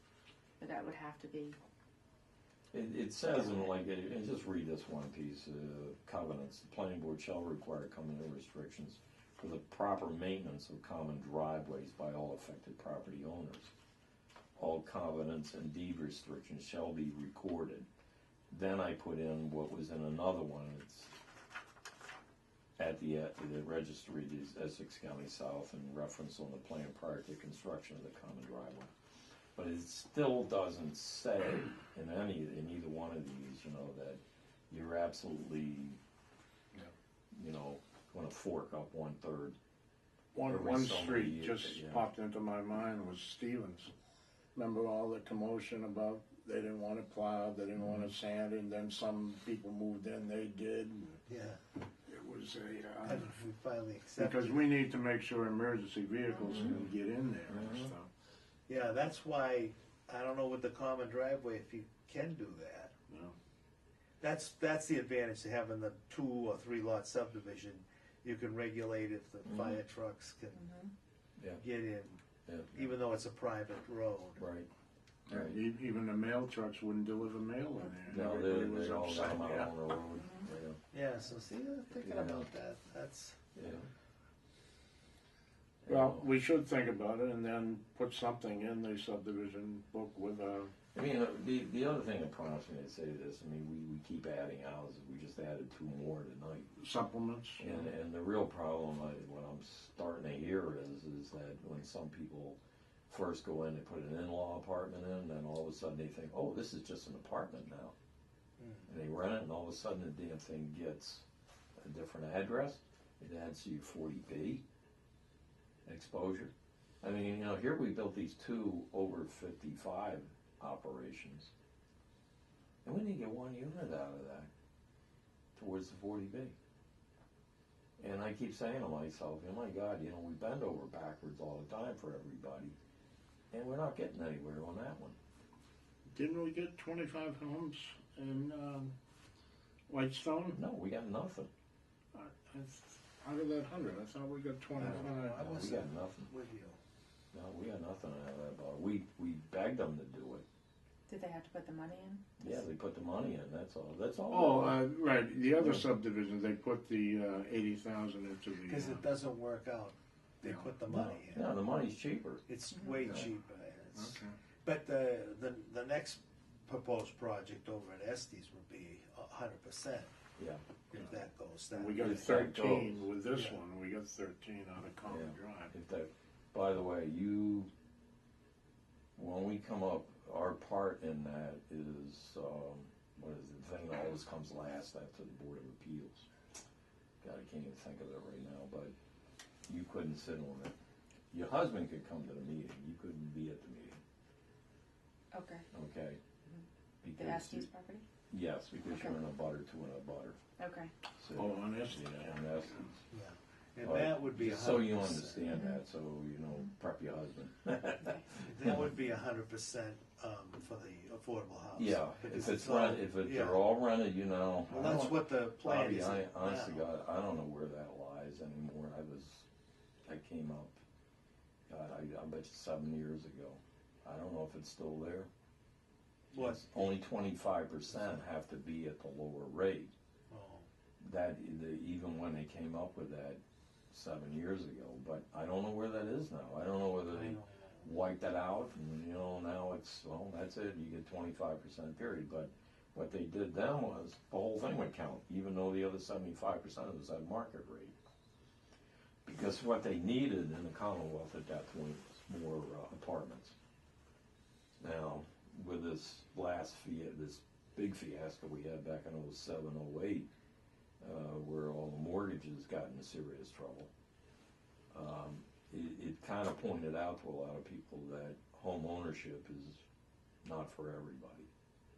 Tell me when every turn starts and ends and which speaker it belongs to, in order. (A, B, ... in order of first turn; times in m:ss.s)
0:00.6-0:01.6 A
0:02.7-0:13.7 B
0:14.6-0:17.9 B
0:18.5-0:21.1 B
0:22.8-0:28.9 B
0:29.6-0:36.0 B
0:37.3-0:39.6 B
0:40.3-0:43.9 C
0:40.5-0:42.0 B
0:44.6-0:51.2 C
0:51.3-0:51.6 D
0:52.1-0:53.3 C
0:53.0-0:54.7 D
0:54.2-0:58.1 C
0:56.5-0:56.8 B
0:57.5-0:57.9 B
0:58.7-1:02.9 D
1:03.1-1:03.4 C
1:04.2-1:10.7 D
1:09.5-1:09.8 B
1:10.5-1:10.9 A
1:11.4-1:11.6 B
1:11.6-1:12.2 D
1:12.5-1:12.8 B
1:12.7-1:14.4 D
1:14.4-1:14.7 B
1:15.3-1:19.7 C
1:15.3-1:15.6 B
1:18.1-1:20.8 B
1:20.2-1:20.5 A
1:20.9-1:23.4 D
1:22.0-1:22.5 B
1:23.6-1:23.9 B
1:25.9-1:26.3 B
1:25.9-1:30.7 C
1:30.9-1:36.7 B
1:36.8-1:37.9 C
1:37.6-1:47.9 B
1:48.6-1:48.9 D
1:48.9-1:51.3 B
1:51.8-1:54.6 B
1:55.9-2:01.5 B
2:02.8-2:04.5 B
2:05.6-2:06.6 B
2:08.0-2:12.8 B
2:13.5-2:15.2 B
2:16.1-2:19.0 C
2:19.9-2:20.6 C
2:20.6-2:21.5 B
2:22.1-2:25.5 C
2:24.7-2:26.8 D
2:24.9-2:26.3 B
2:27.3-2:30.4 B
2:31.1-2:32.2 A
2:32.4-2:34.8 B
2:34.3-2:39.0 C
2:35.6-2:35.9 B
2:38.6-2:41.5 D
2:40.9-2:42.4 B
2:42.5-2:50.1 D
2:44.0-2:44.3 C
2:50.4-2:50.6 B
2:50.9-2:52.2 D
2:51.7-2:55.7 C
2:52.0-2:53.1 B
2:53.3-2:53.6 D
2:55.0-2:57.7 B
2:59.2-3:06.3 B
3:07.2-3:08.9 B
3:09.7-3:10.8 B
3:11.3-3:14.0 B
3:15.3-3:15.7 A
3:15.7-3:16.2 B
3:16.5-3:18.0 A
3:17.0-3:17.7 B
3:18.3-3:20.4 B
3:18.9-3:19.2 A
3:20.6-3:20.9 A
3:21.2-3:23.0 B
3:21.3-3:22.8 C
3:23.1-3:25.5 D
3:23.8-3:28.9 B
3:25.5-3:25.8 A
3:28.4-3:33.6 D
3:31.8-3:39.5 B
3:34.7-3:36.8 D
3:40.1-3:40.8 B
3:41.7-3:45.3 B
3:46.3-3:46.6 D
3:46.4-3:49.9 B
3:50.3-3:50.7 D
3:51.0-3:53.4 B
3:53.9-4:08.0 B
3:57.1-3:57.9 D
4:09.3-4:13.6 B
4:14.8-4:20.3 B
4:21.0-4:23.9 B
4:24.9-4:29.8 B
4:30.4-4:31.5 B